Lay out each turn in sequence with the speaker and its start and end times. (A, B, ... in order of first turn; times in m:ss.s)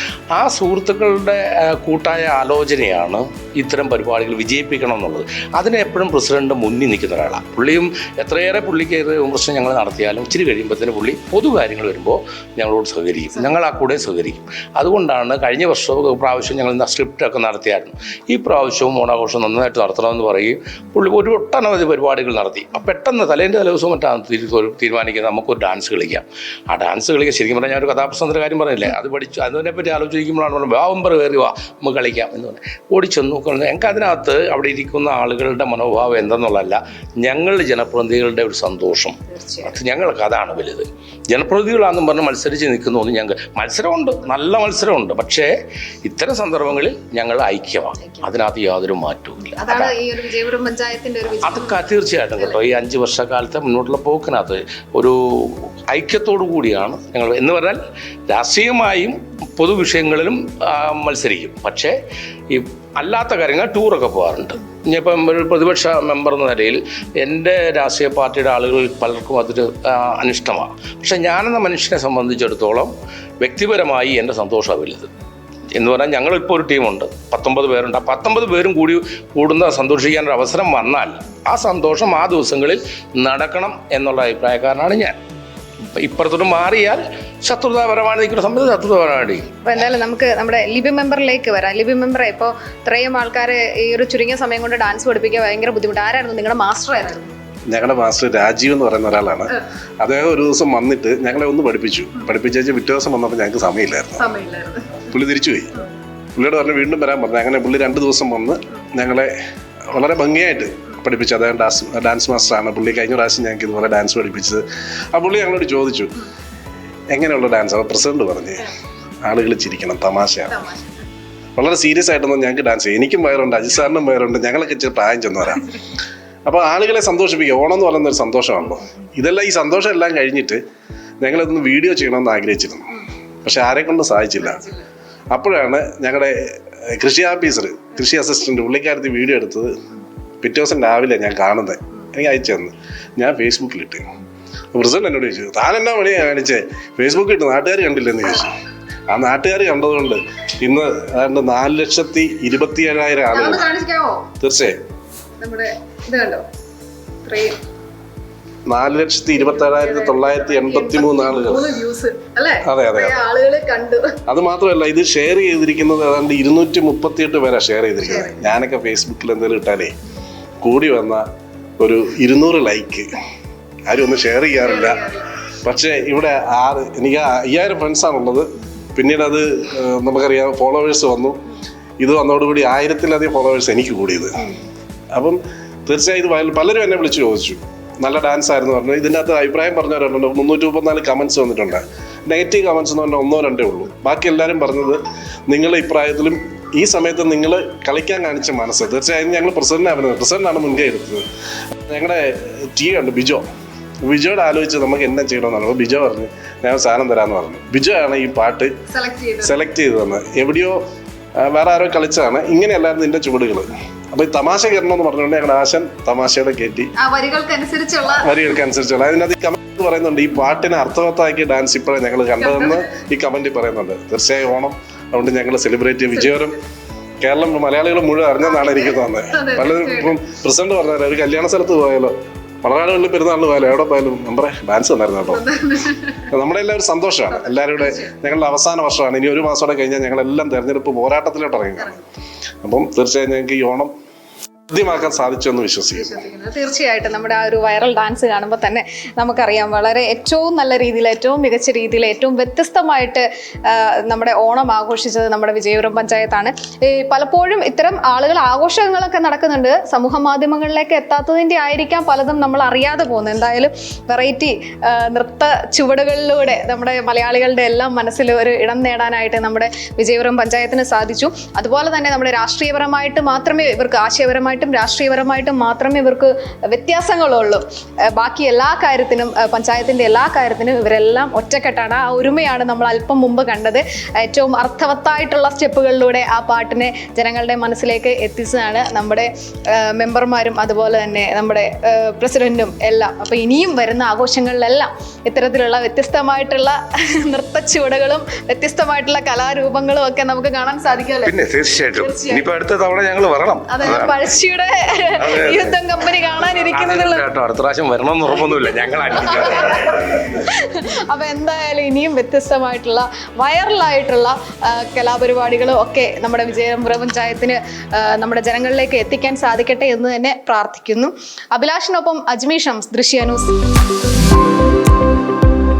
0:00.3-0:45.5 A
0:39.3-0:39.7 B
0:46.0-0:50.0 A
0:48.0-0:48.3 B
0:49.6-0:51.9 B
0:51.4-1:01.9 A
1:02.5-1:15.1 A
1:15.7-1:25.1 A
1:25.9-1:29.5 A
1:29.6-1:37.3 B
1:37.7-1:44.3 C
1:44.2-1:45.0 B
1:45.1-1:45.7 C
1:46.4-1:49.3 C
1:49.9-1:54.6 C
1:55.1-1:56.1 C
1:57.1-1:58.7 C
1:59.2-2:00.6 C
2:00.5-2:01.0 B
2:01.6-2:05.6 C
2:06.4-2:10.6 C
2:11.2-2:14.6 C
2:14.4-2:14.8 B
2:15.3-2:19.7 C
2:20.4-2:24.0 C
2:24.7-2:28.5 C
2:29.1-2:33.7 C
2:33.3-2:34.3 B
2:34.4-2:34.8 C
2:35.4-2:36.4 B
2:37.2-2:37.6 B
2:38.7-2:41.8 C
2:39.3-2:44.1 B
2:42.6-2:43.2 C
2:44.3-2:49.9 C
2:48.0-2:48.4 B
2:50.6-2:51.2 C
2:51.8-2:53.1 C
2:53.9-3:01.4 C
2:54.6-2:55.2 B
3:02.0-3:04.5 C
3:05.1-3:21.2 C
3:21.9-3:23.4 C
3:24.0-3:28.7 C
3:28.9-3:29.6 B
3:29.4-3:30.8 C
3:31.4-3:36.9 C
3:37.0-3:38.2 B
3:38.1-3:46.6 C
3:42.4-3:42.8 B
3:46.1-3:46.6 B
3:47.2-3:55.5 C
3:48.4-3:50.2 B
3:55.3-3:56.3 B
3:56.3-4:02.0 C
3:57.3-3:58.1 B
4:02.6-4:03.9 C
4:04.7-4:06.2 C
4:06.0-5:01.3 B
5:01.2-5:04.1 D
5:01.9-5:02.5 B
5:03.7-5:07.3 B
5:05.5-5:05.8 D
5:06.4-5:09.9 A
5:09.2-5:23.5 B